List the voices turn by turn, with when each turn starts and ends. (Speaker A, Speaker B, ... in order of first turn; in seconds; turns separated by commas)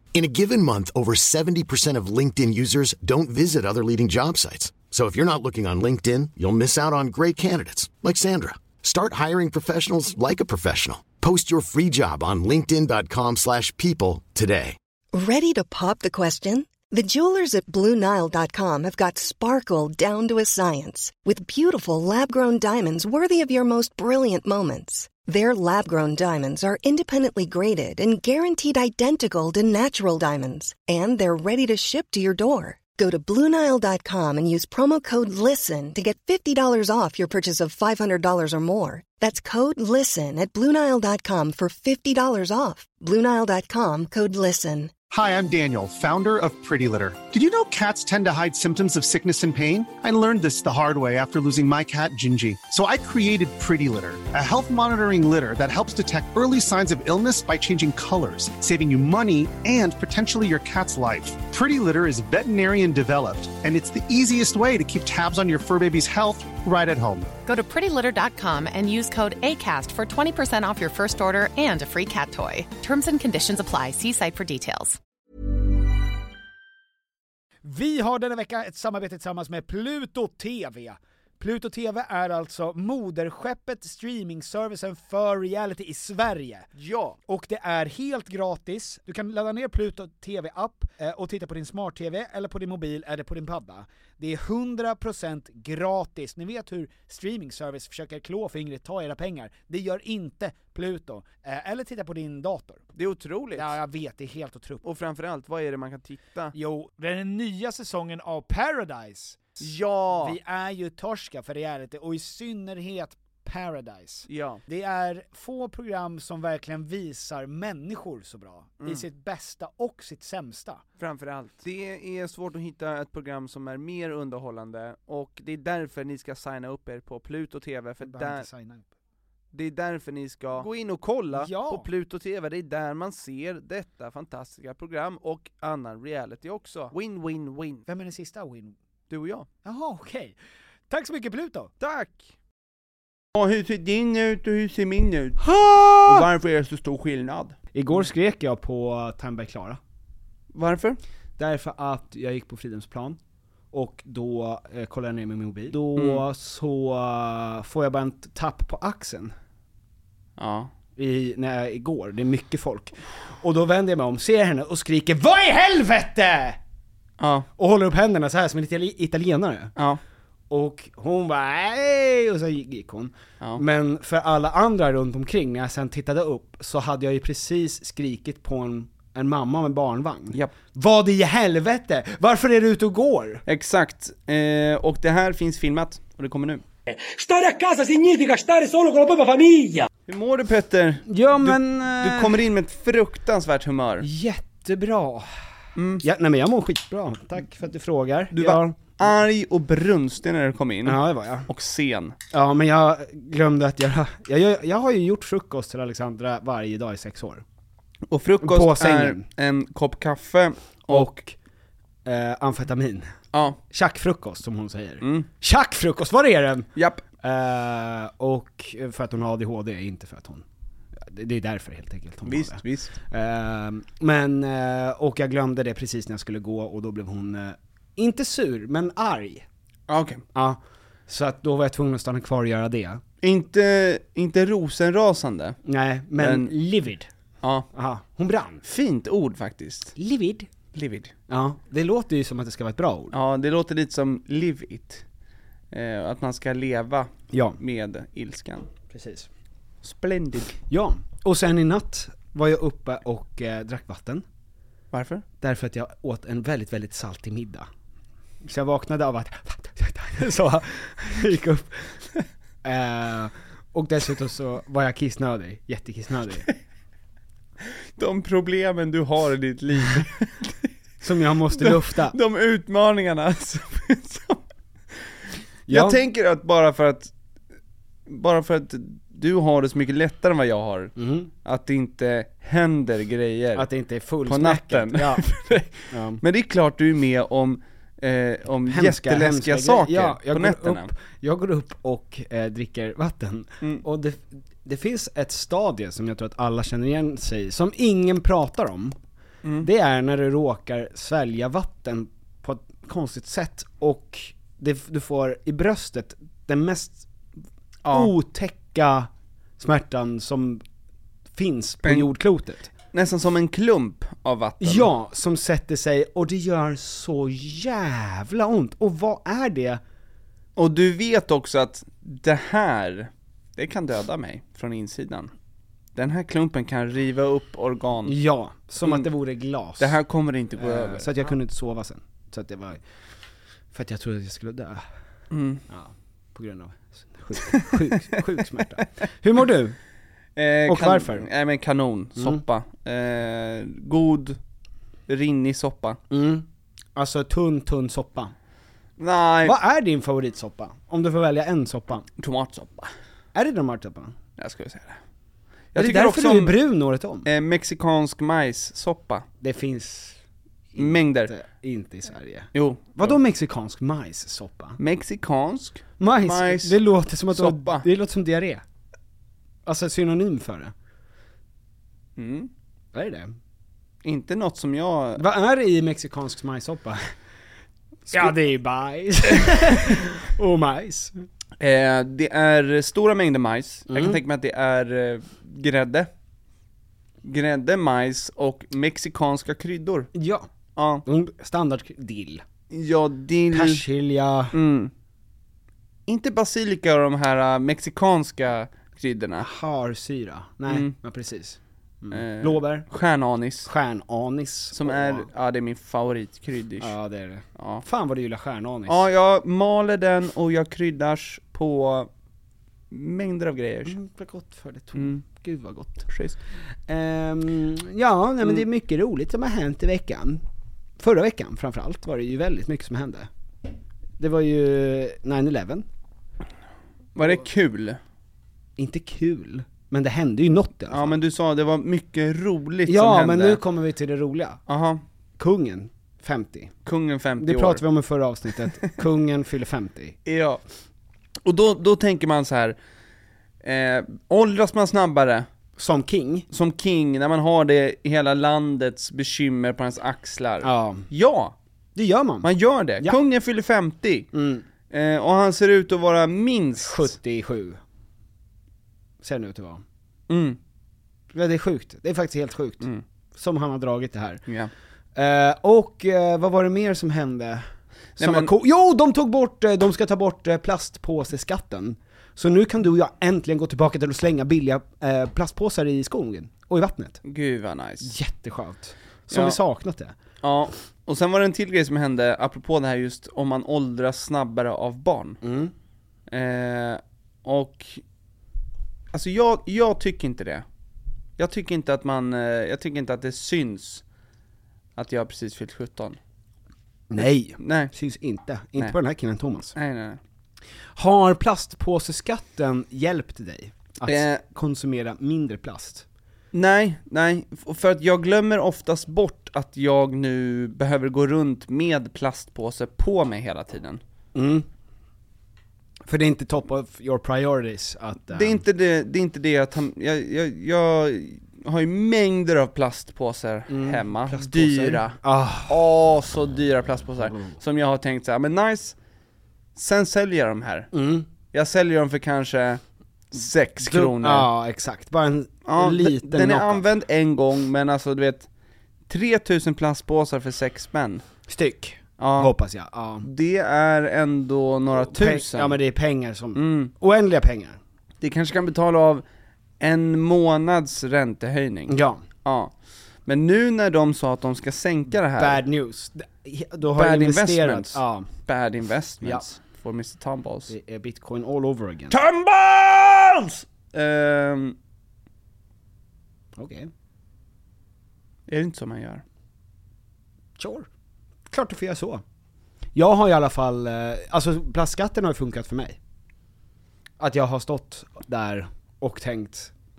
Speaker A: 0.1-14.8, Speaker B: 15.1-44.9, Speaker C: 45.1-67.3, Speaker D: 67.5-75.0, Speaker E: 77.7-86.7, Speaker F: 86.8-87.2, Speaker E: 87.3-102.8, Speaker F: 103.0-103.8, Speaker E: 103.6-104.8, Speaker F: 104.8-106.6, Speaker E: 106.5-109.5, Speaker F: 109.6-110.4, Speaker E: 110.2-120.8, Speaker F: 114.3-114.6, Speaker F: 121.0-128.5, Speaker E: 128.0-128.8, Speaker F: 129.5-137.8, Speaker E: 131.3-131.9, Speaker E: 137.9-138.7, Speaker F: 139.1-139.5, Speaker E: 139.6-140.3, Speaker E: 140.9-141.7, Speaker F: 141.8-142.3, Speaker F: 143.4-145.5, Speaker E: 145.4-146.3, Speaker F: 146.0-147.6, Speaker E: 147.7-149.8, Speaker F: 150.5-151.0, Speaker E: 151.4-153.2, Speaker E: 153.7-159.3, Speaker F: 155.9-156.2, Speaker F: 160.4-160.7, Speaker E: 161.0-166.6, Speaker F: 167.2-167.5, Speaker E: 167.6-169.7, Speaker E: 170.5-183.4, Speaker F: 183.5-186.6, Speaker G: 186.9-189.9, Speaker F: 190.1-194.1, Speaker E: 191.1-192.4, Speaker E: 194.0-195.3, Speaker F: 195.8-196.0, Speaker E: 196.0-198.8, Speaker F: 198.3-202.2, Speaker E: 200.8-201.5, Speaker E: 202.3-207.4, Speaker F: 208.1-211.2, Speaker E: 208.4-209.2, Speaker E: 210.9-211.3, Speaker E: 212.1-213.1, Speaker F: 213.3-213.6, Speaker E: 213.7-216.7, Speaker F: 215.0-215.3, Speaker F: 216.8-217.0, Speaker E: 217.2-220.4, Speaker E: 221.0-229.5, Speaker F: 222.2-223.0, Speaker F: 229.9-230.2, Speaker E: 230.3-233.0, Speaker F: 233.2-235.6, Speaker E: 235.6-237.1, Speaker F: 236.2-236.5, Speaker E: 237.7-238.6, Speaker F: 238.6-239.9, Speaker E: 240.0-240.5, Speaker F: 240.7-241.1, Speaker E: 241.3-243.2, Speaker F: 243.1-245.1, Speaker F: 245.7-248.7, Speaker E: 247.3-247.6, Speaker E: 248.9-249.3, Speaker F: 249.8-250.6, Speaker E: 250.7-254.2, Speaker F: 254.9-255.2, Speaker E: 255.4-257.7, Speaker E: 258.4-261.9, Speaker E: 262.6-266.5, Speaker F: 268.0-270.7, Speaker E: 271.0-272.2, Speaker F: 271.5-274.4, Speaker E: 275.7-276.0, Speaker F: 275.7-277.1, Speaker F: 278.1-283.7, Speaker E: 281.0-281.3, Speaker E: 283.6-285.3, Speaker F: 284.3-290.9, Speaker E: 285.9-286.2, Speaker E: 288.7-299.0, Speaker E: 299.6-307.1, Speaker F: 307.9-308.1, Speaker E: 307.9-310.6, Speaker E: 311.3-312.7, Speaker F: 311.8-312.1, Speaker F: 312.9-314.9, Speaker E: 314.6-319.8, Speaker F: 320.6-325.3, Speaker F: 325.9-328.2, Speaker E: 328.1-330.0, Speaker F: 328.8-329.1, Speaker F: 329.8-331.1, Speaker E: 330.6-332.8, Speaker E: 333.7-334.9, Speaker F: 335.3-335.6, Speaker E: 335.7-339.8, Speaker F: 337.5-338.2, Speaker F: 340.4-344.4, Speaker E: 340.7-341.3, Speaker E: 342.2-342.4, Speaker F: 345.1-346.0, Speaker E: 346.1-348.3, Speaker F: 349.0-349.6, Speaker E: 349.4-352.1, Speaker F: 352.2-352.9, Speaker E: 353.3-354.1, Speaker F: 354.4-355.0, Speaker F: 355.7-356.6, Speaker E: 355.8-357.3, Speaker F: 357.2-359.3, Speaker E: 359.4-360.2, Speaker E: 360.7-364.8, Speaker F: 360.8-361.3, Speaker F: 362.5-363.2, Speaker F: 364.8-366.8, Speaker E: 366.0-368.6, Speaker F: 367.3-367.8, Speaker E: 369.7-370.7, Speaker F: 372.2-372.5, Speaker E: 372.9-373.4, Speaker F: 374.0-375.2, Speaker E: 375.2-377.1, Speaker E: 378.1-381.2, Speaker F: 381.6-386.1, Speaker E: 383.9-384.2, Speaker F: 387.2-390.1, Speaker E: 390.1-390.5, Speaker F: 390.8-391.0, Speaker E: 391.1-392.4, Speaker F: 392.7-393.8, Speaker E: 393.5-394.5, Speaker F: 394.5-394.9, Speaker F: 396.1-399.5, Speaker E: 399.4-402.9, Speaker F: 400.7-401.0, Speaker F: 402.1-403.7, Speaker E: 403.7-405.3, Speaker F: 404.7-406.9, Speaker E: 406.8-409.1, Speaker F: 407.6-407.8, Speaker F: 408.9-412.1, Speaker F: 412.9-414.0, Speaker E: 413.9-416.1, Speaker F: 414.9-415.2, Speaker F: 416.1-416.4, Speaker E: 416.9-420.4, Speaker E: 421.0-423.3, Speaker E: 424.2-425.9, Speaker F: 427.1-428.0, Speaker E: 428.8-431.2, Speaker F: 430.9-433.6, Speaker E: 432.9-434.6, Speaker F: 434.7-435.0, Speaker E: 435.4-436.7, Speaker F: 436.9-437.8, Speaker E: 437.4-440.2, Speaker F: 438.6-438.9, Speaker F: 440.3-440.6, Speaker F: 441.4-442.8, Speaker F: 443.6-445.5, Speaker E: 445.8-446.5, Speaker F: 446.5-451.6, Speaker E: 450.6-451.1, Speaker E: 451.9-452.5, Speaker F: 452.4-454.3, Speaker E: 454.3-454.6, Speaker F: 454.9-457.1, Speaker E: 456.8-457.8, Speaker E: 459.2-459.8, Speaker F: 460.3-460.6, Speaker E: 461.3-464.4, Speaker E: 465.1-477.2, Speaker F: 468.2-468.5, Speaker F: 477.2-478.1, Speaker E: 478.0-480.2, Speaker F: 479.3-479.6, Speaker F: 480.4-485.4, Speaker E: 485.4-485.7, Speaker F: 486.3-488.0, Speaker F: 489.1-490.6, Speaker F: 491.4-494.0, Speaker F: 495.0-496.2, Speaker E: 497.1-499.8, Speaker F: 497.6-497.9, Speaker F: 499.8-500.2, Speaker E: 501.0-506.1, Speaker F: 504.1-504.4, Speaker F: 506.5-514.0, Speaker E: 514.3-514.7, Speaker E: 516.0-518.6, Speaker F: 518.3-529.0, Speaker E: 523.7-525.8, Speaker E: 527.2-527.6, Speaker F: 529.8-530.9, Speaker E: 530.9-531.3, Speaker F: 531.5-532.8, Speaker F: 533.3-534.5, Speaker E: 533.8-536.9, Speaker F: 535.6-538.5, Speaker F: 539.1-541.2, Speaker E: 541.5-543.3, Speaker F: 542.2-542.5, Speaker F: 543.2-545.8, Speaker E: 544.9-547.8, Speaker F: 546.5-546.9, Speaker F: 548.2-549.2, Speaker F: 549.8-552.7, Speaker E: 551.9-552.2, Speaker F: 553.3-555.6, Speaker E: 555.4-558.3, Speaker F: 556.9-560.7, Speaker E: 560.7-562.2, Speaker F: 562.1-564.8, Speaker E: 566.6-566.9, Speaker F: 568.5-569.2, Speaker E: 570.6-570.9, Speaker E: 571.5-572.2, Speaker E: 572.9-576.0, Speaker E: 577.2-579.7